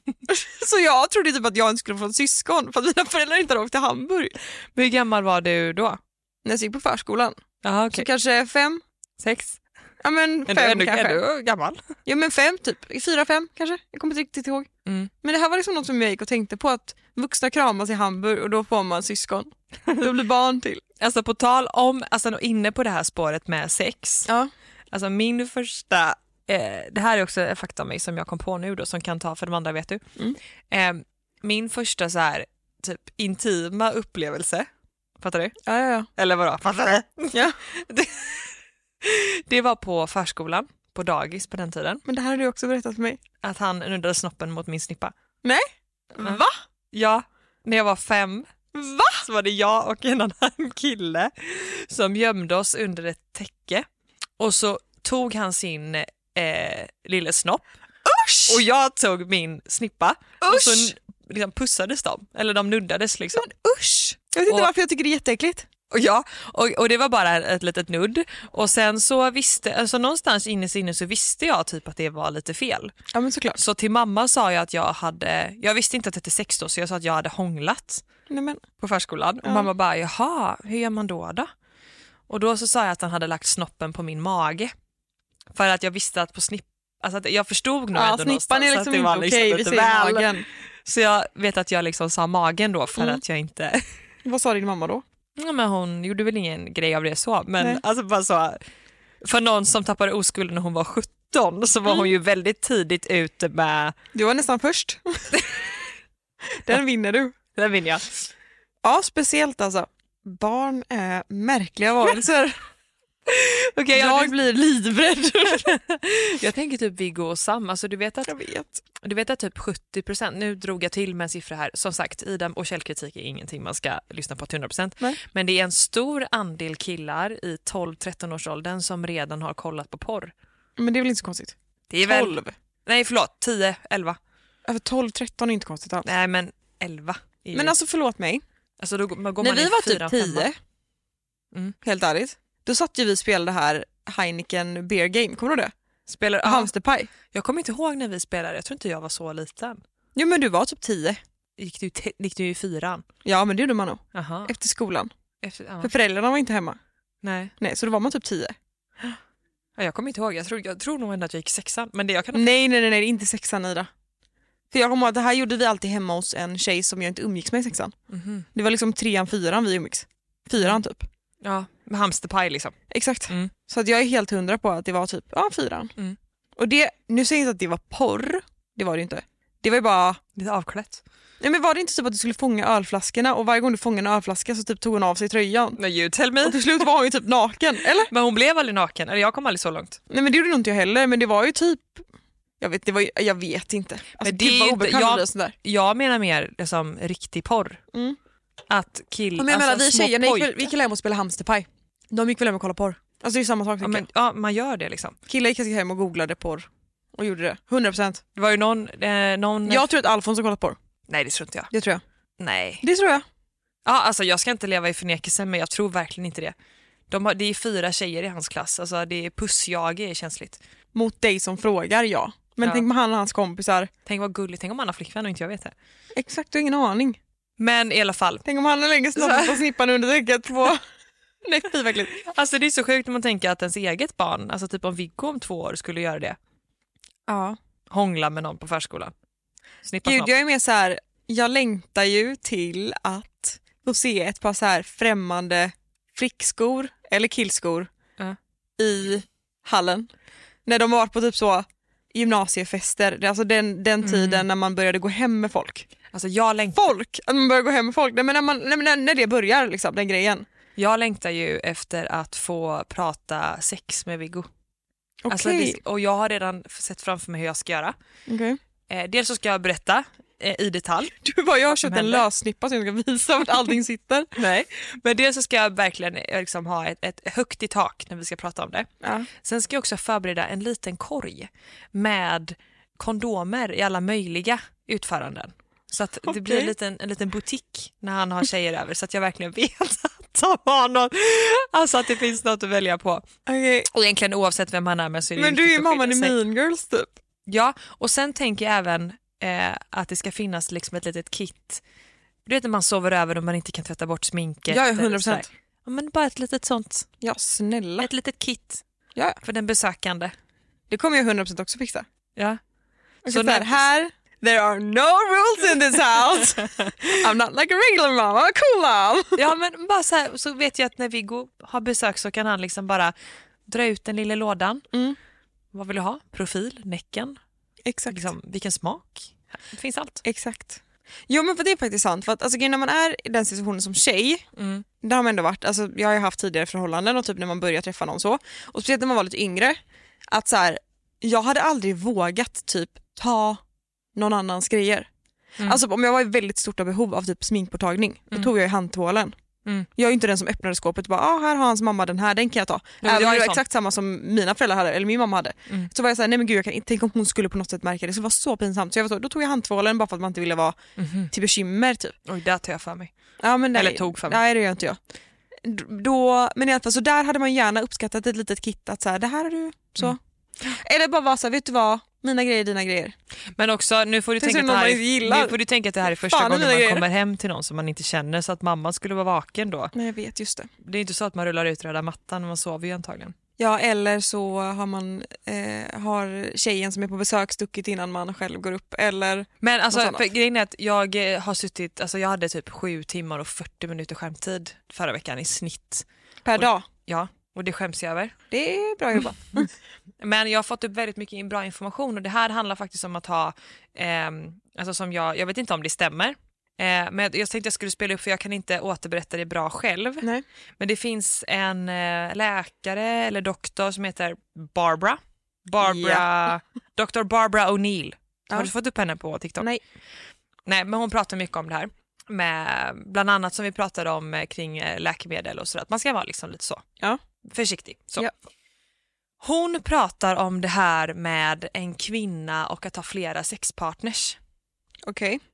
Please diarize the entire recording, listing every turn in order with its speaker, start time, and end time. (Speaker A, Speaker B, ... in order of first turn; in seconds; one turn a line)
Speaker A: 0.3-4.3
Speaker B: 4.8-6.0
Speaker A: 6.5-7.4
Speaker B: 7.6-8.1
Speaker A: 7.9-8.8
Speaker B: 9.2-9.6
Speaker A: 10.0-11.2
Speaker B: 10.5-11.8
Speaker A: 12.1-14.7
Speaker B: 14.9-15.1
Speaker A: 15.2-20.8
Speaker B: 21.0-24.3
Speaker B: 24.9-30.0
Speaker B: 30.7-34.7
Speaker B: 35.2-35.6
Speaker A: 35.7-36.1
Speaker B: 36.2-38.5
Speaker B: 39.0-42.0
Speaker A: 42.0-43.2
Speaker B: 43.4-45.1
Speaker A: 45.4-46.6
Speaker B: 46.9-53.9
Speaker A: 48.8-49.2
Speaker B: 54.4-57.7
Speaker A: 58.0-58.6
Speaker B: 58.5-63.5
Speaker A: 60.4-60.9
Speaker A: 63.3-65.7
Speaker B: 65.9-72.9
Speaker A: 73.1-73.6
Speaker B: 73.6-78.0
Speaker A: 78.3-78.6
Speaker B: 78.8-81.5
Speaker B: 82.3-84.7
Speaker B: 85.5-93.8
Speaker A: 87.9-90.5
Speaker A: 94.2-95.0
Speaker B: 95.4-98.6
Speaker B: 99.2-104.0
Speaker A: 104.1-105.4
Speaker A: 106.7-107.3
Speaker B: 107.5-108.2
Speaker A: 108.8-112.6
Speaker B: 113.3-114.5
Speaker A: 113.9-115.7
Speaker B: 115.5-118.3
Speaker A: 118.3-118.8
Speaker B: 119.0-130.3
Speaker A: 130.8-132.5
Speaker B: 131.9-134.2
Speaker A: 134.7-136.1
Speaker B: 136.0-137.8
Speaker A: 137.5-138.4
Speaker B: 138.8-140.5
Speaker A: 139.4-140.6
Speaker A: 141.8-145.7
Speaker B: 146.1-146.7
Speaker A: 146.4-147.1
Speaker B: 147.3-149.8
Speaker A: 150.2-151.2
Speaker B: 151.6-153.1
Speaker A: 153.2-155.1
Speaker B: 154.1-154.5
Speaker B: 155.4-155.9
Speaker A: 155.8-156.8
Speaker B: 157.2-157.5
Speaker A: 157.6-158.6
Speaker B: 159.8-162.5
Speaker A: 162.3-163.9
Speaker A: 164.7-167.9
Speaker B: 168.1-168.5
Speaker A: 168.5-171.1
Speaker B: 171.4-172.8
Speaker A: 172.9-175.9
Speaker A: 176.6-180.2
Speaker B: 180.4-181.0
Speaker A: 181.4-185.8
Speaker B: 185.8-186.9
Speaker A: 186.4-188.1
Speaker B: 188.1-190.0
Speaker A: 190.1-192.1
Speaker A: 192.6-195.5
Speaker B: 194.2-197.8
Speaker B: 198.7-200.7
Speaker A: 199.4-204.1
Speaker B: 203.8-205.2
Speaker A: 205.3-208.2
Speaker B: 208.4-209.9
Speaker A: 209.7-210.8
Speaker B: 211.1-211.7
Speaker A: 211.7-212.0
Speaker B: 212.4-212.8
Speaker A: 212.8-213.2
Speaker B: 213.9-216.6
Speaker B: 217.1-220.6
Speaker A: 220.9-223.9
Speaker B: 224.1-225.7
Speaker A: 226.2-227.2
Speaker B: 227.6-228.4
Speaker A: 228.5-230.8
Speaker B: 229.2-229.6
Speaker A: 231.5-232.2
Speaker B: 232.2-236.4
Speaker A: 237.3-237.6
Speaker B: 237.9-239.1
Speaker B: 239.8-240.3
Speaker A: 240.1-247.9
Speaker A: 248.8-250.1
Speaker A: 250.7-255.9
Speaker B: 254.0-254.5
Speaker B: 256.1-256.9
Speaker A: 256.8-260.5
Speaker B: 260.8-264.5
Speaker A: 265.2-265.8
Speaker B: 265.3-267.9
Speaker A: 268.3-268.6
Speaker B: 268.9-272.3
Speaker A: 271.2-274.3
Speaker B: 274.4-278.9
Speaker B: 279.4-293.2
Speaker A: 286.3-286.7
Speaker A: 293.5-293.9
Speaker B: 293.9-296.4
Speaker A: 295.4-297.1
Speaker B: 297.5-301.8
Speaker B: 302.5-307.1
Speaker A: 304.7-305.5
Speaker A: 307.2-308.1
Speaker B: 308.0-308.8
Speaker B: 309.4-310.3
Speaker A: 310.9-312.1
Speaker A: 313.3-319.4
Speaker B: 313.3-313.9
Speaker B: 319.4-323.1
Speaker B: 323.7-324.9
Speaker A: 324.9-325.2
Speaker B: 325.7-327.4
Speaker A: 327.9-328.3
Speaker B: 328.1-330.2
Speaker A: 330.2-334.4
Speaker B: 334.6-334.9
Speaker A: 335.0-339.8
Speaker A: 340.3-343.6
Speaker A: 344.1-345.1
Speaker A: 345.6-349.4
Speaker A: 350.0-360.8
Speaker B: 353.0-353.6
Speaker B: 361.0-361.3
Speaker A: 361.3-362.1
Speaker B: 362.3-363.1
Speaker A: 363.4-365.0
Speaker B: 363.7-364.4
Speaker A: 365.6-373.1
Speaker B: 373.6-379.9
Speaker A: 374.4-375.6
Speaker A: 376.1-377.1
Speaker A: 379.9-380.7
Speaker B: 380.8-383.4
Speaker A: 383.6-390.2
Speaker B: 389.6-398.3
Speaker A: 396.4-396.9
Speaker A: 398.5-399.7
Speaker B: 400.2-410.3
Speaker B: 410.8-419.7
Speaker A: 415.8-416.2
Speaker B: 420.7-426.9
Speaker B: 427.5-428.3
Speaker B: 429.4-434.4
Speaker A: 435.1-435.4